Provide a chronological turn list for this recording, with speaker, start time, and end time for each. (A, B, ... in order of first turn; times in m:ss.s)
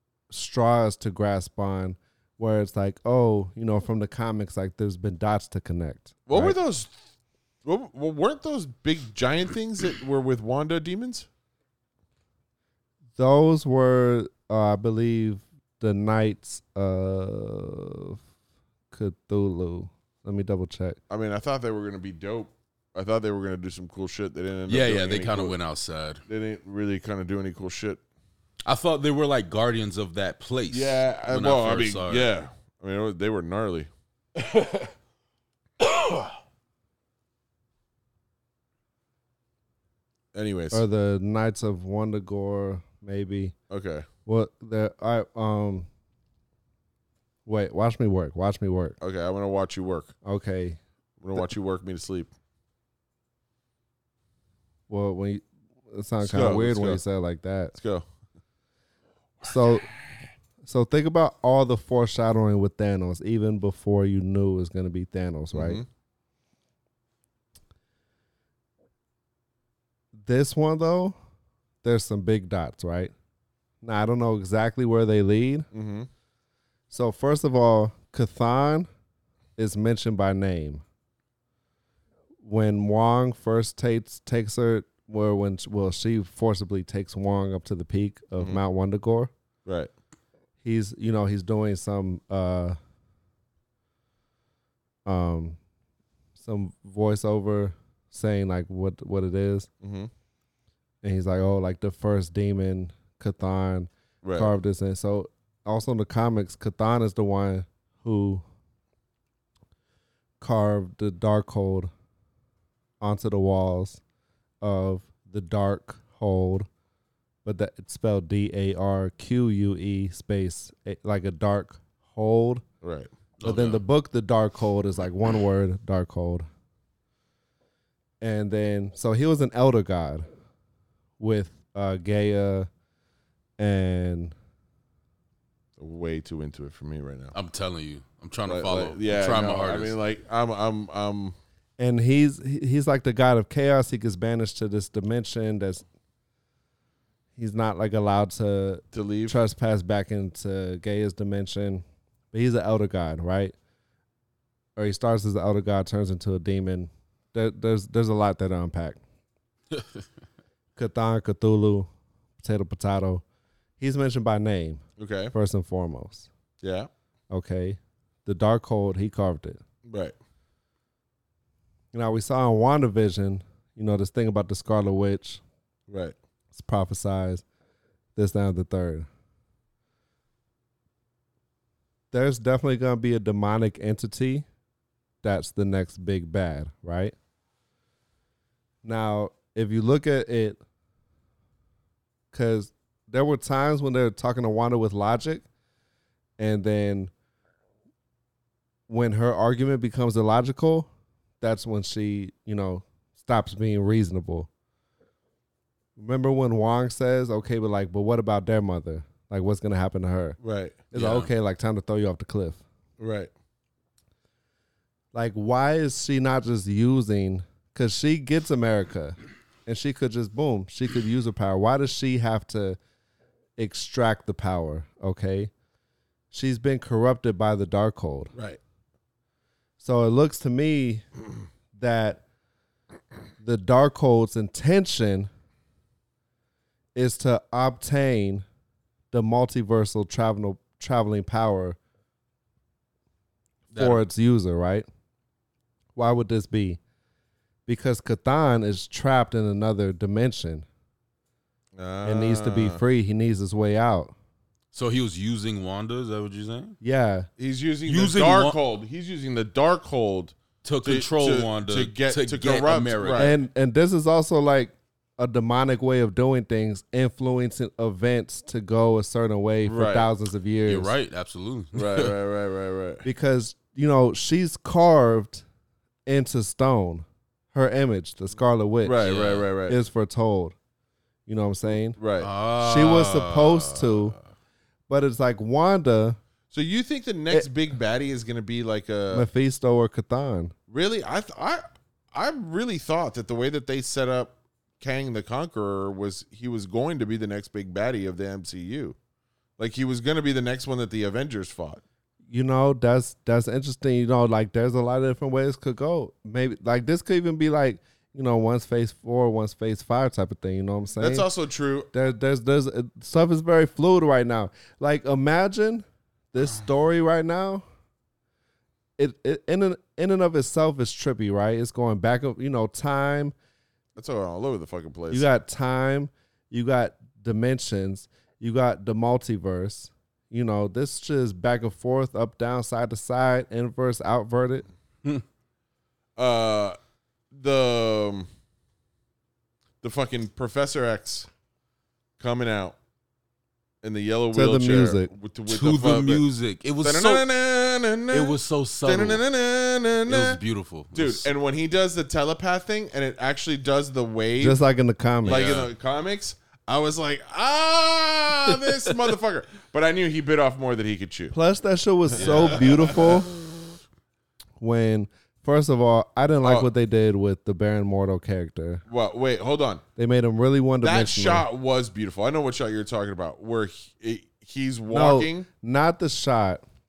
0:00.3-0:06.6 A
0:06.3-0:06.9 B
0:07.6-0:11.3 B
0:13.2-0:18.2 A
0:18.9-0:21.0 A
0:21.1-0:25.6 B
0:24.7-0:26.2 C
0:26.3-0:28.0 B
0:28.6-0:32.3 C
0:30.7-0:33.9 B
0:35.8-0:36.2 C
0:40.3-0:40.8 B
0:40.7-0:43.5 A
0:43.7-0:44.0 B
0:44.2-0:45.9 A
0:47.4-0:49.0 A
0:49.0-0:50.1 B
0:50.2-0:50.8 A
0:51.2-0:52.3 B
0:54.9-0:57.7 A
0:56.2-0:57.0 B
0:57.7-0:58.0 B
0:59.4-0:59.9 A
1:00.6-1:05.8 A
1:05.5-1:05.8 B
1:10.1-1:11.1 A
1:11.8-1:13.1 A
1:13.8-1:15.7 A
1:15.7-1:16.1 B
1:16.9-1:18.9 A
1:19.6-1:20.8 A
1:22.4-1:29.3 A
1:29.6-1:29.9 B
1:30.6-1:32.8 A
1:35.0-1:35.6 A
1:36.4-1:39.7 A
1:39.8-1:40.1 B
1:41.0-1:48.4 A
1:44.2-1:44.5 B
1:50.4-1:51.9 A
1:53.0-1:54.0 A
1:54.6-1:56.7 A
1:57.4-2:02.6 A
2:02.8-2:03.1 B
2:03.4-2:03.8 C
2:03.4-2:06.4 A
2:08.2-2:10.2 A
2:11.2-2:12.7 A
2:13.6-2:14.3 A
2:15.8-2:17.3 B
2:17.3-2:19.9 C
2:18.4-2:21.4 B
2:21.8-2:25.8 A
2:27.4-2:33.5 A
2:28.9-2:29.4 B
2:34.8-2:39.0 A
2:40.8-2:41.9 A
2:42.4-2:43.2 A
2:43.8-2:46.3 A
2:45.0-2:45.3 B
2:46.6-2:46.9 B
2:47.3-2:49.6 A
2:49.8-2:50.1 B
2:51.9-2:55.4 A
2:55.9-2:56.1 B
2:56.5-2:57.4 A
2:58.2-2:59.1 A
3:02.1-3:04.4 A
3:05.2-3:07.1 A
3:08.8-3:10.6 A
3:12.3-3:15.4 A
3:16.4-3:17.1 A
3:18.9-3:20.9 A
3:21.4-3:24.5 A
3:26.0-3:30.4 A
3:30.4-3:30.8 B
3:30.9-3:32.6 A
3:30.9-3:31.3 C
3:33.0-3:33.3 B
3:35.1-3:42.8 A
3:43.6-3:45.5 A
3:46.3-3:48.3 A
3:48.3-3:48.6 B
3:49.8-3:51.0 A
3:51.7-3:52.2 A
3:53.4-3:55.3 A
3:56.9-3:58.4 A
3:59.1-4:01.8 A
4:03.7-4:04.0 C
4:03.7-4:04.8 A
4:06.0-4:06.8 A
4:07.7-4:10.6 A
4:11.8-4:12.8 B
4:12.0-4:14.1 A
4:14.7-4:16.8 C
4:16.8-4:17.3 A
4:17.4-4:23.3 B
4:17.9-4:18.6 C
4:20.6-4:23.4 C
4:23.2-4:30.9 A
4:29.6-4:30.1 B
4:30.7-4:32.1 C
4:31.7-4:33.0 B
4:33.0-4:35.4 A
4:36.0-4:39.0 A
4:38.8-4:39.8 B
4:39.0-4:39.5 C
4:39.6-4:40.5 A
4:41.3-4:42.0 A
4:42.0-4:42.3 B
4:42.2-4:44.0 C
4:42.5-4:44.1 A
4:44.9-4:46.2 A
4:46.5-4:49.2 B
4:49.1-4:50.5 A
4:50.7-4:59.0 B
4:59.6-5:01.8 B
5:02.3-5:11.3 A
5:11.0-5:11.9 B
5:11.9-5:17.6 A
5:19.0-5:23.3 A
5:24.0-5:25.3 B
5:25.1-5:34.7 A
5:36.2-5:36.8 B
5:37.3-5:38.3 B
5:39.8-5:41.3 B
5:42.2-5:42.8 B
5:43.8-5:46.2 B
5:44.3-5:45.1 A
5:45.5-5:47.2 C
5:46.8-5:50.4 B
5:48.1-5:49.2 C
5:50.0-5:51.3 C
5:50.9-5:54.6 B
5:54.4-5:55.6 A
5:55.2-5:55.7 C
5:55.2-6:01.3 B
6:01.3-6:03.3 A
6:02.1-6:03.2 B
6:02.2-6:02.6 C
6:04.6-6:08.8 A
6:06.4-6:06.7 B
6:08.9-6:09.8 B
6:10.0-6:11.4 A
6:10.8-6:15.5 B
6:14.9-6:16.6 A